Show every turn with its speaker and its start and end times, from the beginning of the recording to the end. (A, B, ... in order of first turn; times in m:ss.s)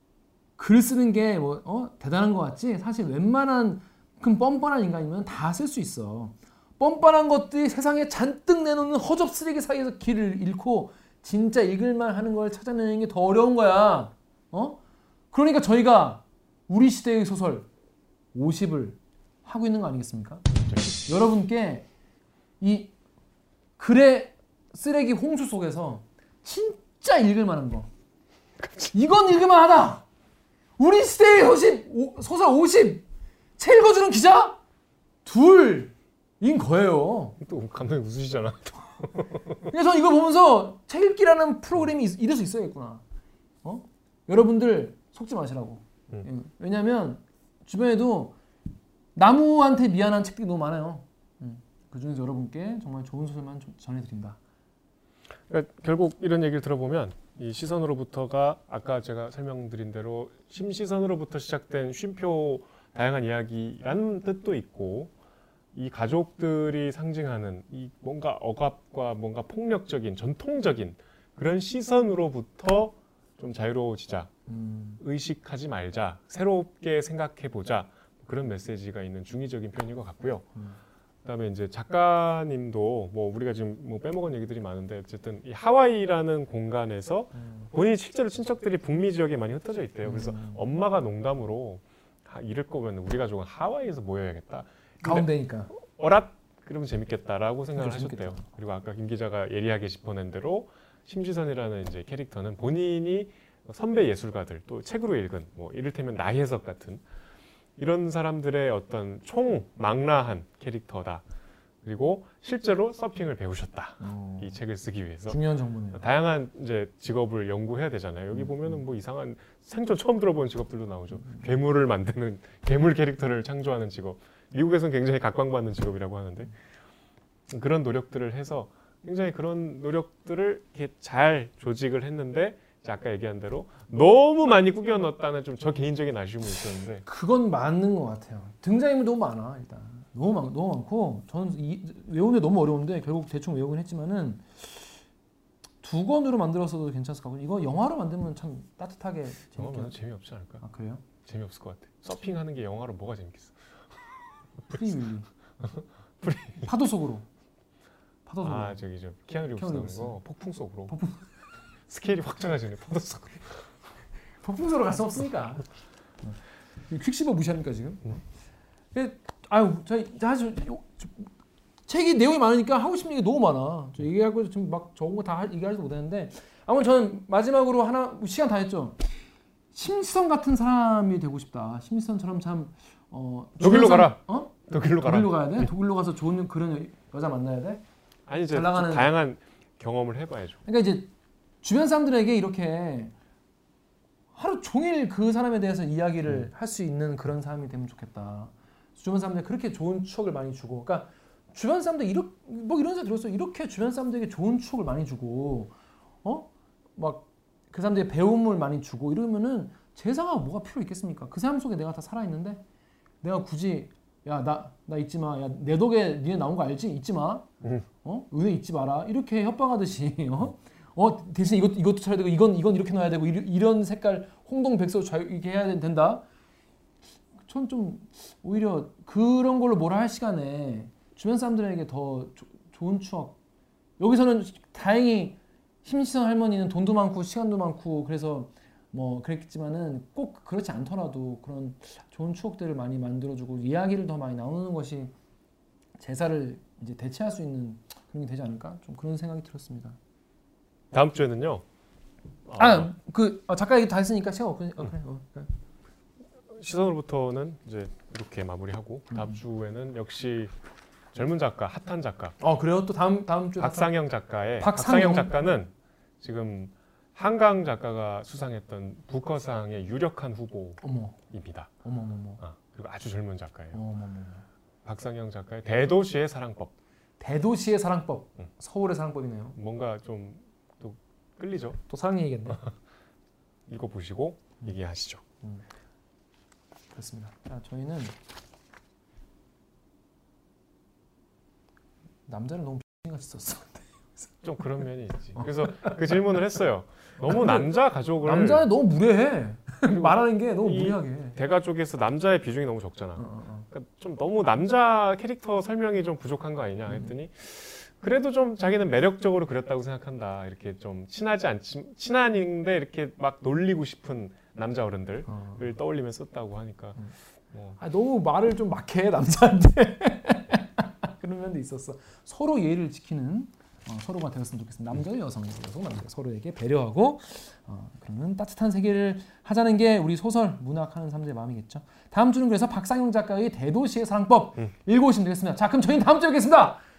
0:00.6-0:14.8 A
0:15.3-0:17.7 A
0:18.3-0:20.4 A
0:21.0-0:21.9 A
0:22.6-0:22.9 A
0:23.8-0:27.9 A
0:28.6-0:28.9 B
0:28.9-0:30.0 A
0:30.8-0:33.0 A
0:33.6-0:34.6 A
0:35.2-0:37.4 A
0:37.4-0:39.5 B
0:39.6-0:43.0 A
0:43.6-0:48.3 A
0:49.1-0:54.4 A
0:55.5-1:05.1 B
1:05.7-1:14.3 B
1:14.5-1:15.0 A
1:15.0-1:20.5 B
1:21.2-1:35.2 B
1:30.0-1:30.6 A
1:35.0-1:35.7 A
1:35.8-1:47.0 B
1:37.8-1:38.4 A
1:47.8-1:51.2 B
1:51.8-1:55.4 B
1:54.0-1:54.6 A
1:55.2-1:56.0 A
1:55.9-2:06.5 B
2:07.5-2:17.0 B
2:17.0-2:24.7 A
2:25.8-2:30.0 A
2:29.6-2:30.6 B
2:30.6-2:31.0 A
2:31.2-2:33.6 B
2:34.7-2:35.3 A
2:36.2-2:36.7 B
2:36.6-2:37.3 A
2:38.2-2:38.8 A
2:38.4-2:40.9 B
2:39.6-2:40.2 A
2:40.9-2:41.2 A
2:41.9-2:43.5 B
2:44.4-2:45.6 A
2:46.9-2:48.2 A
2:48.9-2:51.3 A
2:51.9-2:59.1 A
2:59.7-3:07.8 A
3:03.6-3:05.7 B
3:08.3-3:10.6 B
3:08.5-3:09.1 A
3:10.6-3:11.1 A
3:11.6-3:13.1 A
3:14.3-3:32.6 A
3:33.2-3:37.5 A
3:38.0-3:46.2 A
3:47.4-3:53.4 A
3:54.0-4:05.1 A
4:06.0-4:10.0 A
4:10.9-4:11.6 B
4:12.5-4:12.9 B
4:12.6-4:15.5 A
4:16.5-4:20.5 B
4:21.1-4:22.4 B
4:22.4-4:23.9 A
4:23.6-4:31.7 B
4:24.6-4:25.4 A
4:30.8-4:31.2 A
4:31.8-4:32.4 A
4:32.4-4:33.8 B
4:33.7-4:34.4 A
4:34.8-4:36.7 B
4:37.2-4:39.6 A
4:39.6-4:41.8 B
4:41.9-4:42.6 A
4:43.7-4:45.2 B
4:46.9-4:48.2 A
4:52.3-4:54.6 A
4:54.4-4:58.7 B
4:55.4-4:56.2 A
4:57.2-4:57.6 A
4:58.2-5:01.4 A
4:59.8-5:17.0 B
5:03.2-5:03.6 A
5:06.9-5:07.1 A
5:15.3-5:15.6 A
5:17.5-5:17.8 B
5:17.8-5:36.8 A